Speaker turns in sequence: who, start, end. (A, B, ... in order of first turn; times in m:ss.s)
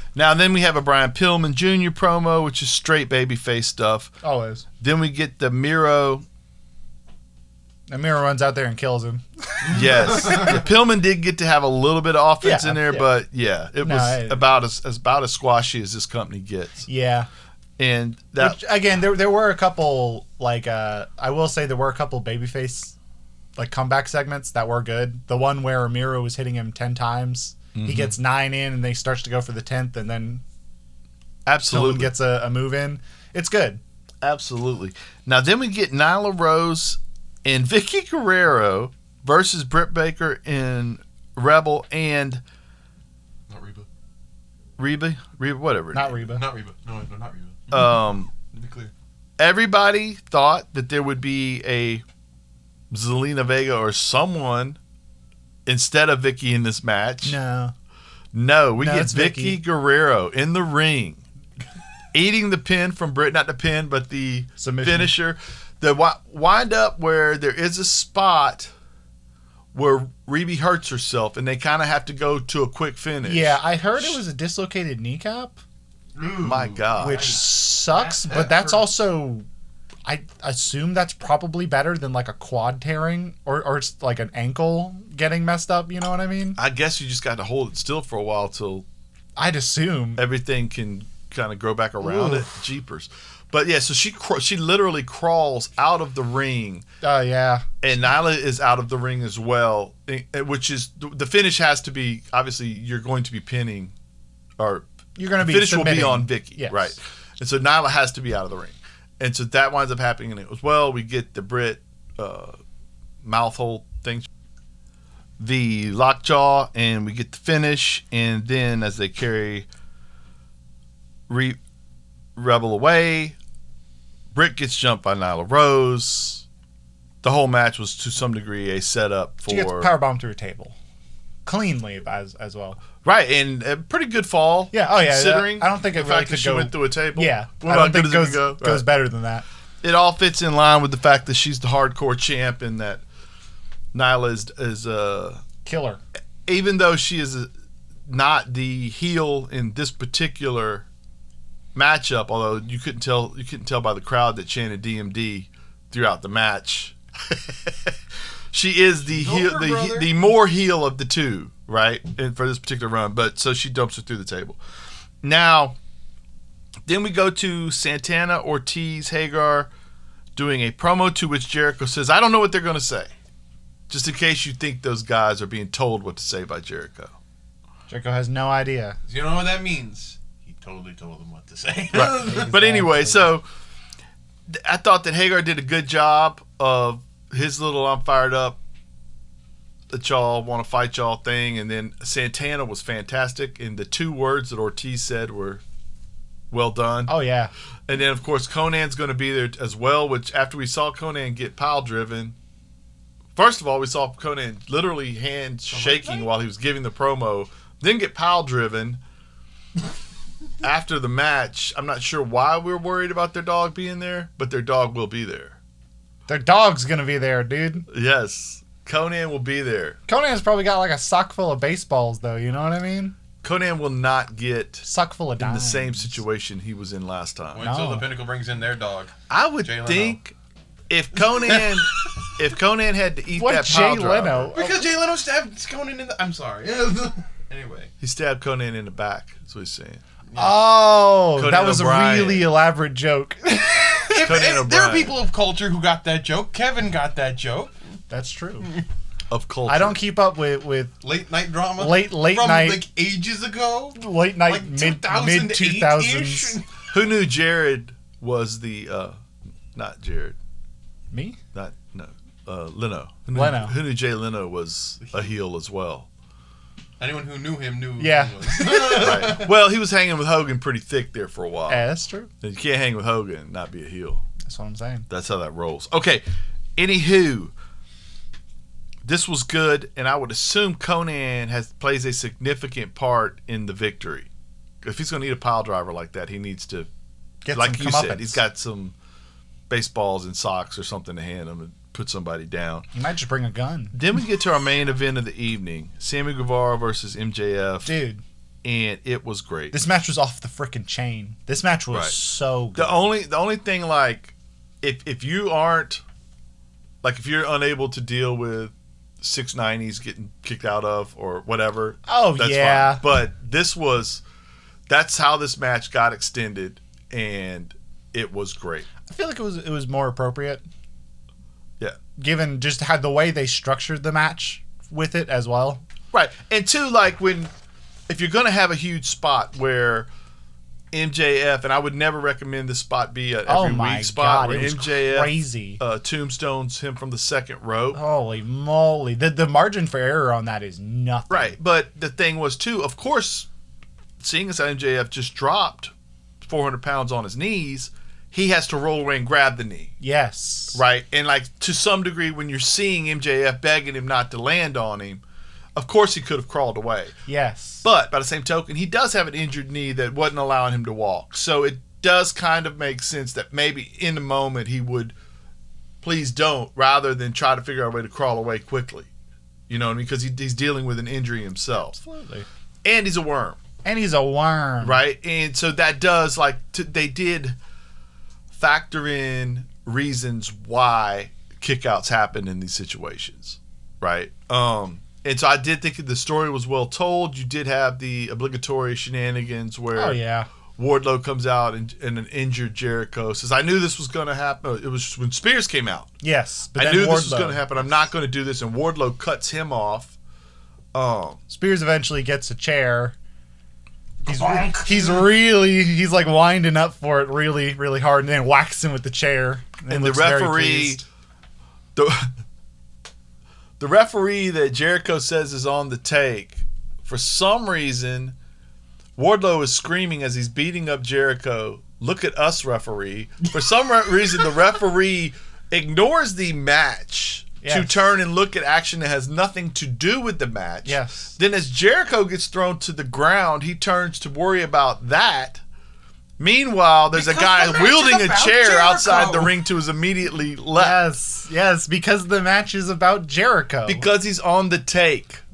0:00.2-0:04.1 A
0:04.2-0:04.6 B
0:04.8-0:06.2 A
0:07.9-0:10.6 B
0:09.6-0:10.6 C
0:09.7-0:16.9 A
0:12.4-0:13.1 B
0:13.8-0:14.4 B
0:16.9-0:17.3 B
0:17.8-0:18.6 A
0:18.4-0:22.9 B
0:23.6-0:30.4 B
0:27.7-0:28.1 A
0:31.4-0:32.1 A
0:31.7-0:33.8 B
0:34.2-0:42.4 A
0:43.5-0:43.8 C
0:44.8-0:46.2 A
0:45.9-0:46.4 B
0:46.3-0:48.9 C
0:47.7-0:48.3 A
0:49.4-0:52.0 A
0:52.9-0:54.8 A
0:55.6-0:57.4 A
0:57.2-0:57.7 B
0:58.3-1:01.2 A
0:58.8-0:59.6 B
1:02.1-1:08.7 A
1:04.6-1:05.1 B
1:09.7-1:14.2 A
1:13.2-1:15.6 B
1:16.1-1:18.9 C
1:16.4-1:17.4 A
1:17.0-1:19.5 B
1:20.0-1:26.6 B
1:26.6-1:28.8 A
1:29.4-1:30.2 B
1:30.2-1:36.8 A
1:32.0-1:32.5 B
1:37.0-1:37.6 B
1:37.8-1:43.9 A
1:44.6-1:44.8 A
1:45.2-1:46.9 B
1:45.4-1:52.6 A
1:53.2-1:54.3 A
1:55.4-1:59.7 A
2:01.3-2:01.6 A
2:02.4-2:03.4 A
2:04.3-2:06.4 A
2:07.2-2:09.9 A
2:09.5-2:10.8 B
2:11.4-2:12.8 B
2:13.0-2:18.8 A
2:14.7-2:19.4 B
2:19.8-2:23.0 A
2:23.9-2:25.4 A
2:25.6-2:26.0 B
2:26.4-2:27.5 A
2:28.1-2:30.8 A
2:31.7-2:37.9 A
2:38.5-2:44.6 A
2:39.0-2:40.2 C
2:45.2-2:45.8 A
2:46.9-2:49.7 A
2:50.4-2:53.1 A
2:53.9-2:57.1 A
2:57.9-2:59.0 B
2:59.1-3:02.5 C
3:01.9-3:03.4 A
3:02.0-3:03.3 B
3:04.5-3:08.6 A
3:09.9-3:15.6 A
3:16.5-3:17.1 A
3:17.1-3:17.5 B
3:17.9-3:22.3 A
3:23.4-3:29.0 A
3:25.7-3:26.3 C
3:30.6-3:35.6 A
3:36.3-3:37.8 B
3:37.9-3:40.0 A
3:40.1-3:43.2 B
3:43.4-3:44.8 A
3:44.8-3:46.2 B
3:45.4-3:47.7 A
3:47.5-3:50.2 C
3:47.6-3:48.1 B
3:49.3-3:50.3 A
3:50.9-3:54.5 A
3:51.2-3:52.1 C
3:53.3-3:54.8 B
3:54.5-3:57.9 C
3:58.0-4:00.0 A
4:00.3-4:00.6 C
4:00.4-4:04.3 B
4:01.3-4:02.5 A
4:03.9-4:07.7 C
4:04.2-4:05.2 A
4:08.1-4:08.7 B
4:09.3-4:10.0 A
4:09.7-4:10.9 B
4:11.0-4:16.9 C
4:11.8-4:12.8 B
4:14.0-4:16.6 B
4:16.9-4:19.1 A
4:19.7-4:20.4 A
4:21.1-4:21.4 B
4:21.5-4:26.1 A
4:23.3-4:23.8 B
4:27.0-4:29.5 C
4:28.0-4:29.2 B
4:28.9-4:31.8 A
4:31.7-4:32.3 B
4:32.4-4:34.2 A
4:34.4-4:35.0 B
4:35.1-4:36.2 A
4:36.8-4:37.5 A
4:39.0-4:44.3 A
4:44.8-4:46.9 A
4:47.4-4:48.4 B
4:47.5-4:48.9 A
4:49.7-4:52.8 A
4:52.9-4:53.9 B
4:53.9-4:57.9 A
4:57.8-4:58.2 B
4:58.6-4:59.8 A
4:59.7-5:03.0 B
5:02.7-5:06.0 A
5:07.0-5:14.2 A
5:12.0-5:13.0 B
5:14.9-5:18.9 A
5:19.1-5:20.6 B
5:22.2-5:25.8 B
5:26.1-5:27.5 A
5:28.1-5:30.1 A
5:30.9-5:38.0 A
5:33.5-5:35.8 B
5:37.9-5:41.6 B
5:41.3-5:43.5 A
5:44.2-5:45.9 A
5:46.4-5:49.9 A
5:50.0-5:50.8 B
5:50.7-5:55.2 A
5:55.8-5:57.1 A
5:57.3-5:57.8 B
5:57.8-6:05.1 A
6:06.0-6:09.1 A
6:09.7-6:12.0 A
6:11.9-6:12.5 B
6:12.8-6:13.6 A
6:13.8-6:15.0 B
6:14.8-6:17.6 A
6:18.5-6:30.2 A
6:29.9-6:30.5 B
6:30.8-6:36.1 A
6:36.2-6:37.6 B
6:36.8-6:40.1 A
6:40.9-6:41.4 A
6:41.5-6:43.1 B
6:44.2-6:45.3 C
6:44.2-6:51.0 B
6:49.9-6:51.0 A
6:52.0-6:52.3 A
6:53.8-6:58.3 A
6:59.2-7:15.6 A
7:07.6-7:08.1 B
7:10.8-7:11.3 B
7:16.4-7:21.0 A
7:17.1-7:19.6 C
7:20.7-7:24.1 B
7:23.9-7:25.4 A